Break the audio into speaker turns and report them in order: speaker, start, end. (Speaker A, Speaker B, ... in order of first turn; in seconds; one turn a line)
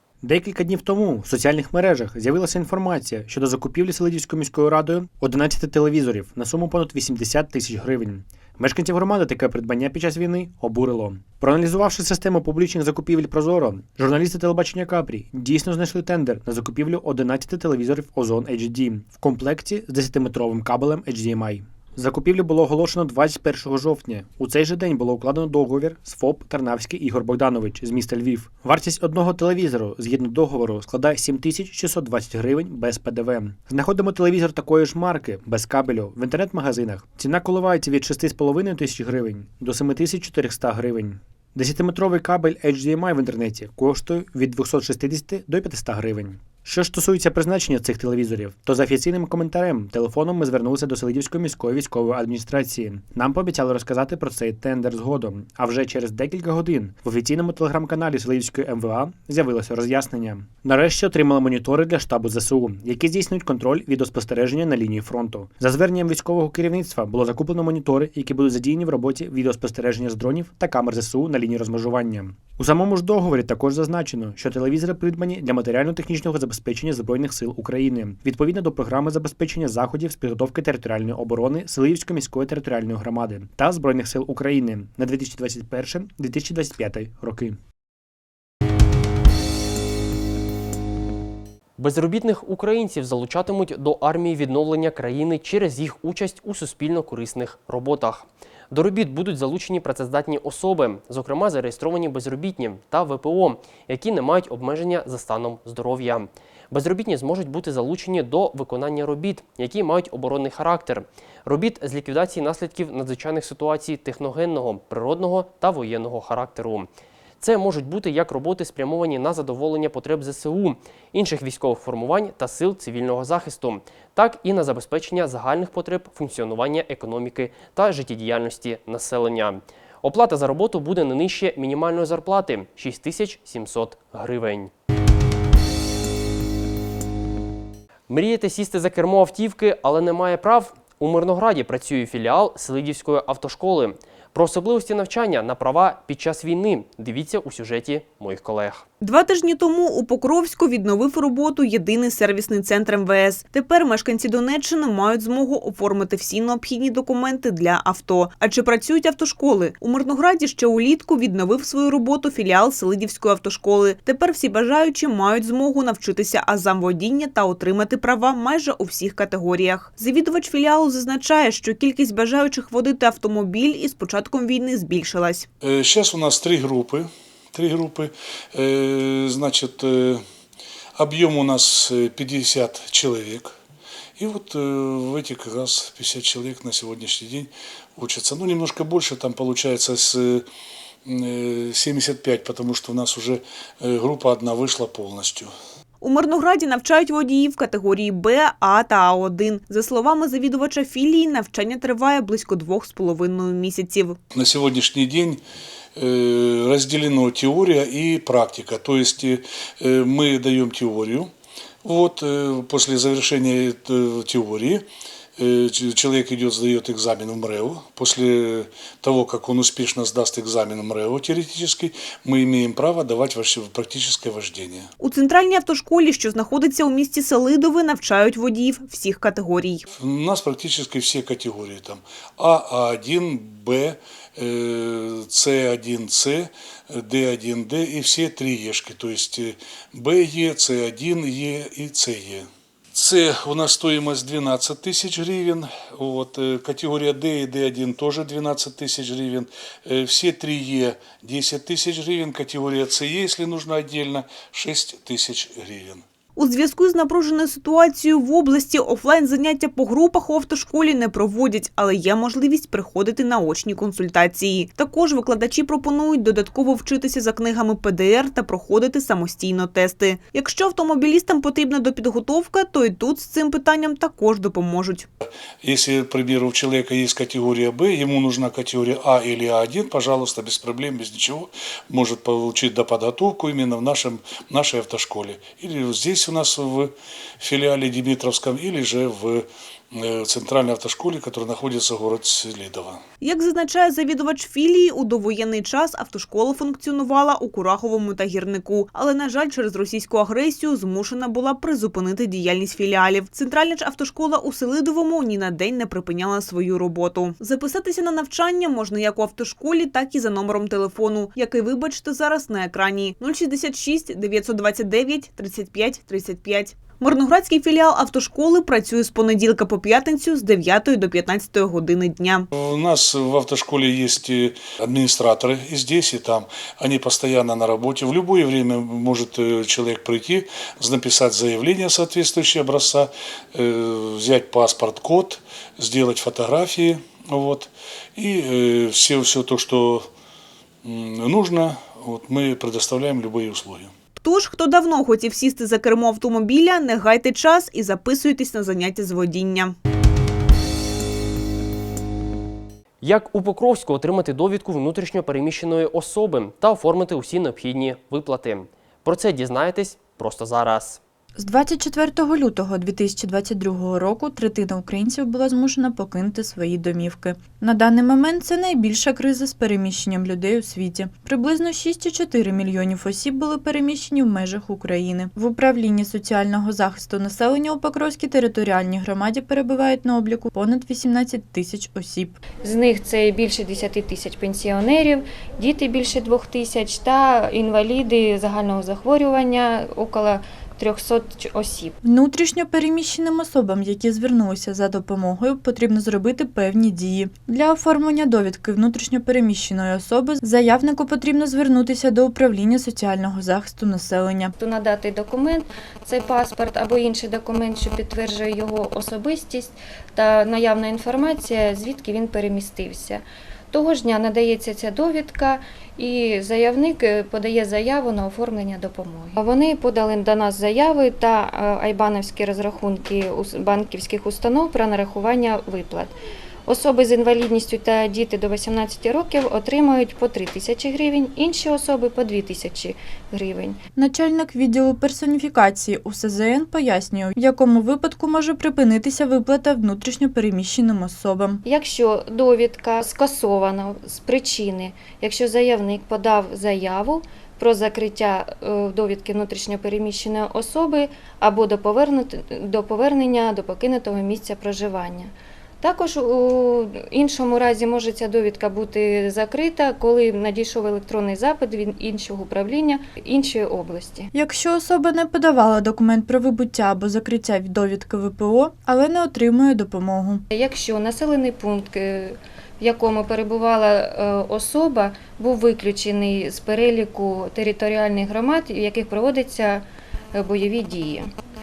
Speaker A: 0.2-87.6
Speaker B: 91.8-116.9
Speaker B: 117.4-134.7
Speaker B: 138.1-148.8
Speaker C: 149.0-175.5
Speaker D: 175.6-180.2
Speaker D: 180.9-183.5
Speaker D: 184.2-190.4
Speaker D: 191.0-195.5
Speaker C: 196.0-204.2
Speaker D: 204.3-205.4
Speaker D: 206.0-211.3
Speaker D: 211.8-214.8
Speaker D: 215.4-224.9
Speaker C: 225.0-229.8
Speaker D: 230.0-256.0
Speaker C: 256.4-275.1
Speaker D: 275.6-293.0
Speaker C: 293.2-322.5
Speaker D: 322.5-340.1
Speaker D: 340.8-343.9
Speaker C: 344.2-349.7
Speaker B: 353.0-361.0
Speaker E: 361.4-382.4
Speaker F: 382.6-391.9
Speaker E: 392.0-404.5
Speaker F: 404.6-426.1
Speaker F: 426.7-433.8
Speaker E: 433.9-441.6
Speaker F: 441.6-464.3
Speaker E: 464.3-470.4
Speaker F: 470.5-481.3